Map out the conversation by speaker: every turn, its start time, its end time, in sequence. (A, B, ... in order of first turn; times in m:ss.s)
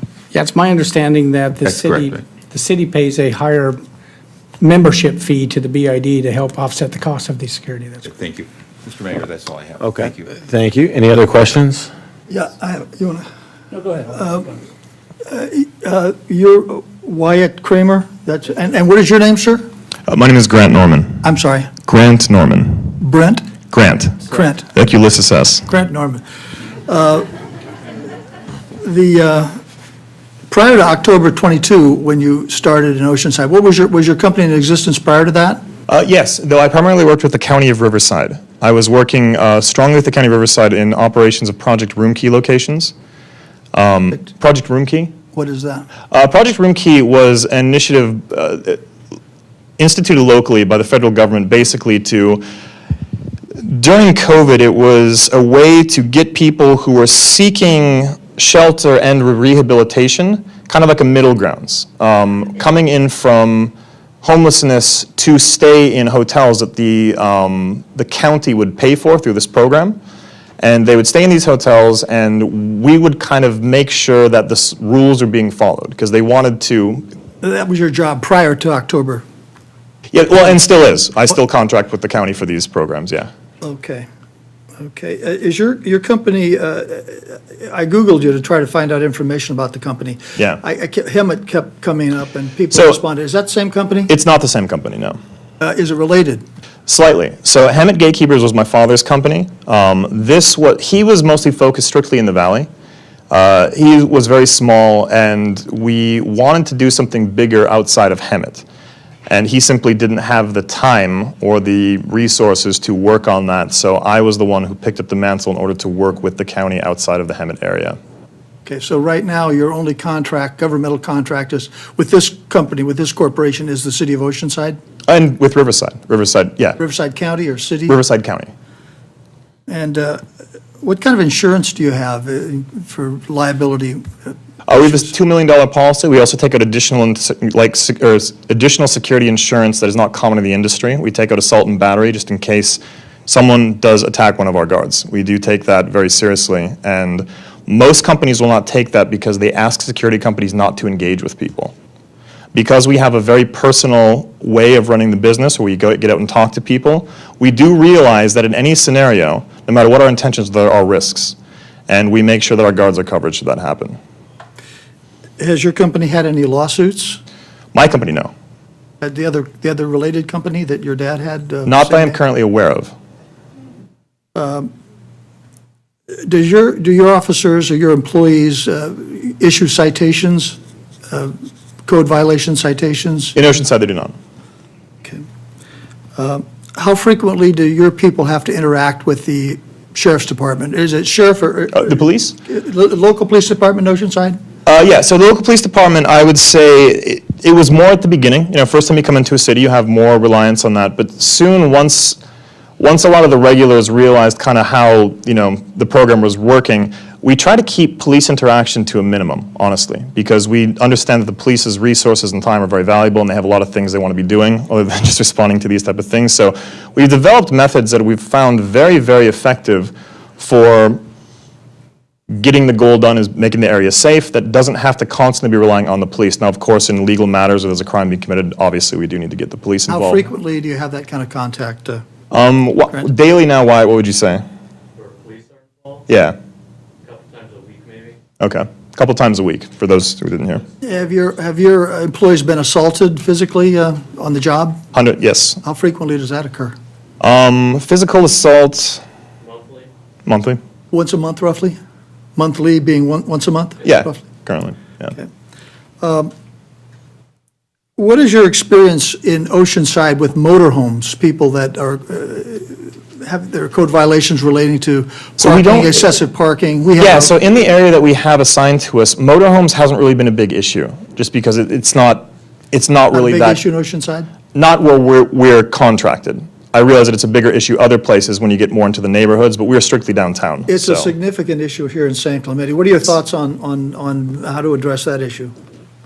0:00.3-0:03.8 A
0:01.6-0:02.2 B
0:04.6-0:08.1 A
0:08.0-0:10.3 B
0:09.8-0:11.9 C
0:12.3-0:13.2 D
0:14.0-0:14.6 D
0:15.3-0:19.7 D
0:20.1-0:21.2 E
0:21.2-0:21.7 D
0:21.8-0:23.0 E
0:23.0-0:23.5 D
0:23.7-0:25.7 E
0:24.3-0:24.7 D
0:25.7-0:26.2 D
0:26.9-0:27.3 D
0:28.8-0:29.5 D
0:30.5-0:35.6 D
0:35.9-0:42.9 E
0:43.7-0:45.1 E
0:45.3-0:45.9 D
0:46.1-0:48.8 E
0:49.8-0:52.4 E
0:53.6-1:10.0 E
1:10.6-1:17.1 E
1:17.4-1:19.2 D
1:20.1-1:23.3 E
1:23.6-1:24.1 D
1:24.8-1:34.1 D
1:32.7-1:33.0 E
1:34.1-1:35.2 E
1:35.6-1:36.4 D
1:36.9-1:42.7 E
1:43.3-1:48.6 E
1:49.3-1:58.0 E
1:58.6-2:04.8 D
2:05.1-2:06.8 E
2:06.8-2:08.0 D
2:07.9-2:08.5 E
2:09.7-2:10.2 D
2:10.8-2:15.1 D
2:14.7-2:31.7 E
2:32.5-2:41.4 E
2:41.9-2:44.0 E
2:45.4-2:47.2 D
2:47.7-2:48.3 E
2:49.0-2:52.2 D
2:51.7-2:52.9 E
2:54.4-2:54.7 D
2:56.2-3:00.6 D
3:01.1-3:03.4 D
3:03.4-3:04.1 E
3:06.2-3:14.4 D
3:11.7-3:12.4 E
3:14.6-3:22.2 E
3:22.8-3:41.0 E
3:42.4-3:50.3 E
3:49.9-3:52.0 D
3:52.3-3:54.4 E
3:55.0-3:56.0 F
3:56.1-3:56.4 E
3:57.1-3:58.2 F
3:58.4-4:00.6 E
4:00.8-4:04.8 D
4:04.9-4:05.6 E
4:05.6-4:06.8 D
4:07.2-4:09.0 E
4:09.5-4:09.9 F
4:10.3-4:10.6 E
4:10.9-4:11.8 D
4:12.4-4:14.2 D
4:13.8-4:15.1 E
4:16.0-4:16.3 D
4:18.0-4:27.4 D
4:25.4-4:26.1 E
4:27.0-4:33.6 E
4:33.1-4:34.3 D
4:34.6-4:41.1 E
4:40.7-4:45.5 D